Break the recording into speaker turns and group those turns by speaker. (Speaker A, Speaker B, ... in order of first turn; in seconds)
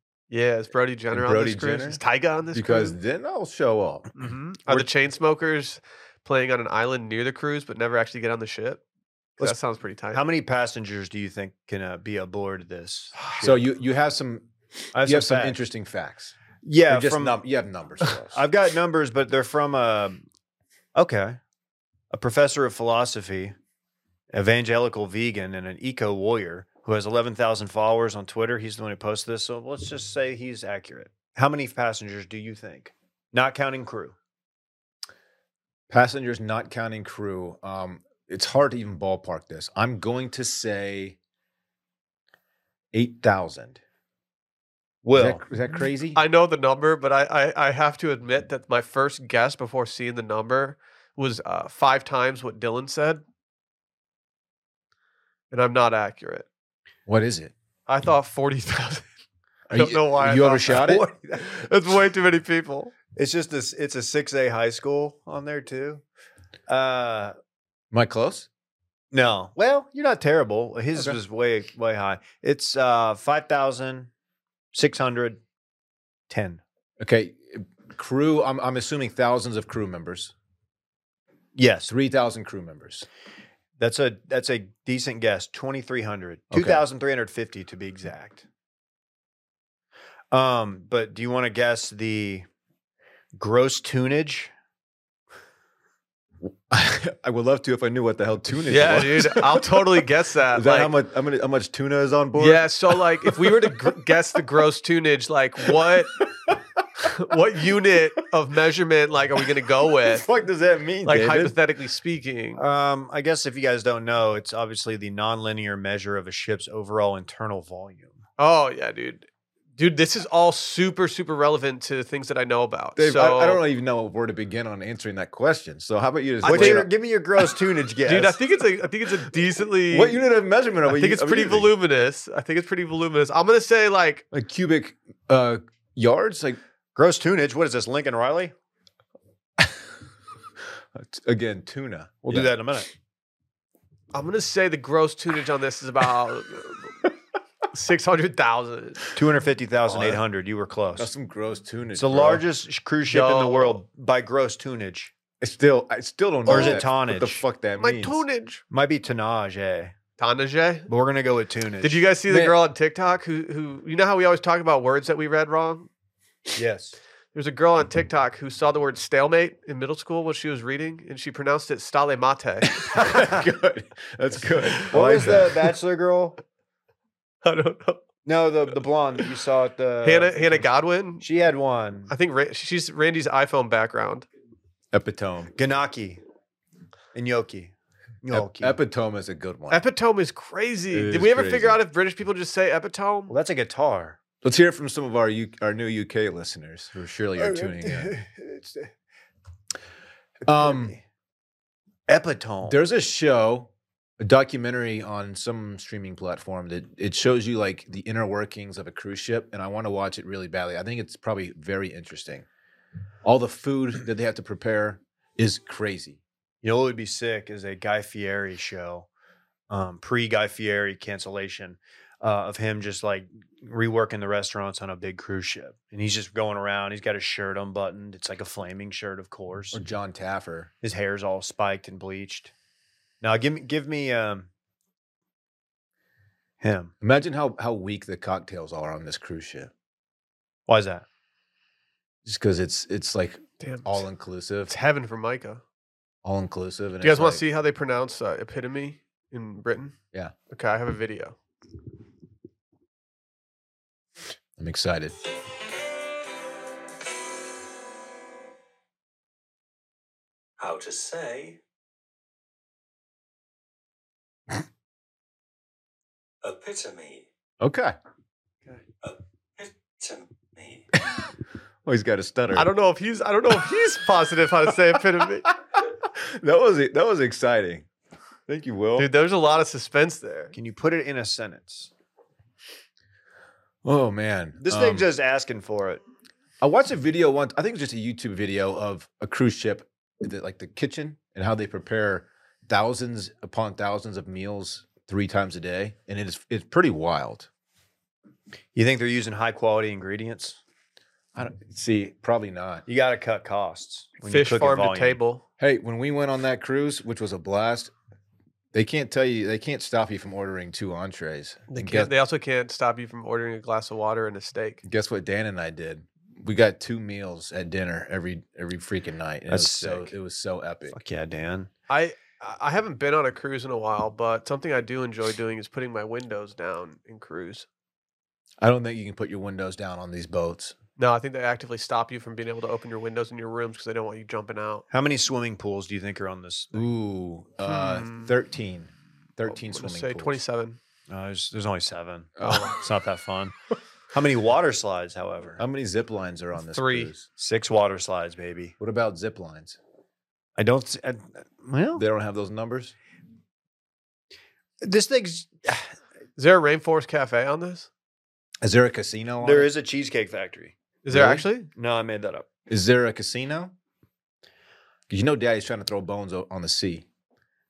Speaker A: 0.3-3.0, 4.2-8.8, 9.4-10.2, 46.1-53.2, 55.5-56.5, 57.9-59.0, 59.7-62.9, 98.7-100.9, 102.4-106.2, 107.0-110.2, 111.0-112.6, 118.4-123.6, 126.4-126.9, 128.1-130.2, 130.8-134.2, 144.1-146.9, 147.7-149.1, 153.1-153.8, 156.5-156.8, 157.8-158.6, 160.2-160.9, 161.8-165.9, 167.3-173.2, 177.4-178.0, 180.0-181.2, 182.1-184.3, 189.7-193.3, 243.6-244.0, 244.7-245.6, 247.0-249.9, 250.5-251.4, 272.5-275.5, 279.0-280.5, 304.2-305.4, 311.7-314.8, 321.9-327.7, 331.0-334.8, 337.6-338.3, 339.5-340.8, 346.6-347.1, 356.4-357.9, 361.0-361.7
Speaker B: 1.1-2.0, 2.5-4.1, 13.4-14.5, 15.0-16.3, 16.9-18.4, 35.9-41.2, 42.9-43.8, 45.1-46.2, 57.1-57.5, 59.7-61.0, 67.9-68.5, 77.0-80.3, 81.8-83.0, 86.5-86.8, 96.4-103.9, 105.8-107.1, 109.9-111.5, 123.0-126.9, 129.9-131.7, 134.3-136.6, 140.9-142.5, 150.9-152.4, 155.4-158.2, 162.3-162.6, 172.7-175.6, 184.9-185.5, 188.3-189.8, 190.9-191.8, 194.4-198.1, 200.4-200.9, 202.6-212.4, 213.2-216.2, 229.7-230.7, 237.0-239.7, 242.2-244.7, 246.2-247.4, 254.6-255.2, 267.6-267.9, 271.8-272.7, 273.6-273.9, 275.4-277.9, 278.5-279.1, 283.8-285.1, 286.6-297.5, 301.3-302.9, 305.6-307.9, 308.7-312.1, 314.8-321.0, 328.6-330.7, 336.7-340.4, 342.4-342.7, 345.6-347.3, 348.8-349.8, 351.9-352.9, 358.6-359.7, 361.1-361.4, 362.7-363.7, 365.1-367.1
Speaker C: 10.1-13.6, 14.9-15.6, 16.6-17.4, 18.3-20.2, 20.9-21.4, 22.1-23.5, 24.3-34.1, 45.0-45.4, 63.1-66.0, 66.7-67.3, 69.1-74.1, 74.7-75.4, 76.3-76.6, 81.5-81.9, 83.8-88.4, 90.3-92.5, 93.4-94.5, 112.5-118.2, 126.4-128.4, 136.9-138.5, 142.2-142.9, 149.1-151.1, 151.9-155.1, 156.4-157.4, 158.7-159.9, 160.9-162.0, 166.5-167.0, 174.9-176.4, 178.2-180.7, 181.2-182.1, 185.6-186.2, 187.1-187.7, 188.2-188.8, 193.3-194.2, 197.4-198.9, 200.4-201.0, 202.1-202.8, 216.6-219.1, 219.7-229.8, 230.8-232.5, 233.2-234.5, 236.6-236.9, 240.7-241.0, 280.5-281.9, 284.6-286.0, 298.7-300.6, 302.9-305.2, 319.5-320.1, 320.9-321.7, 334.9-336.9, 341.1-343.5, 344.1-345.6, 347.4-348.7, 350.6-352.0, 354.8-355.9, 359.4-360.7, 361.7-362.5
Speaker D: 260.6-261.6, 266.4-267.2, 269.0-270.8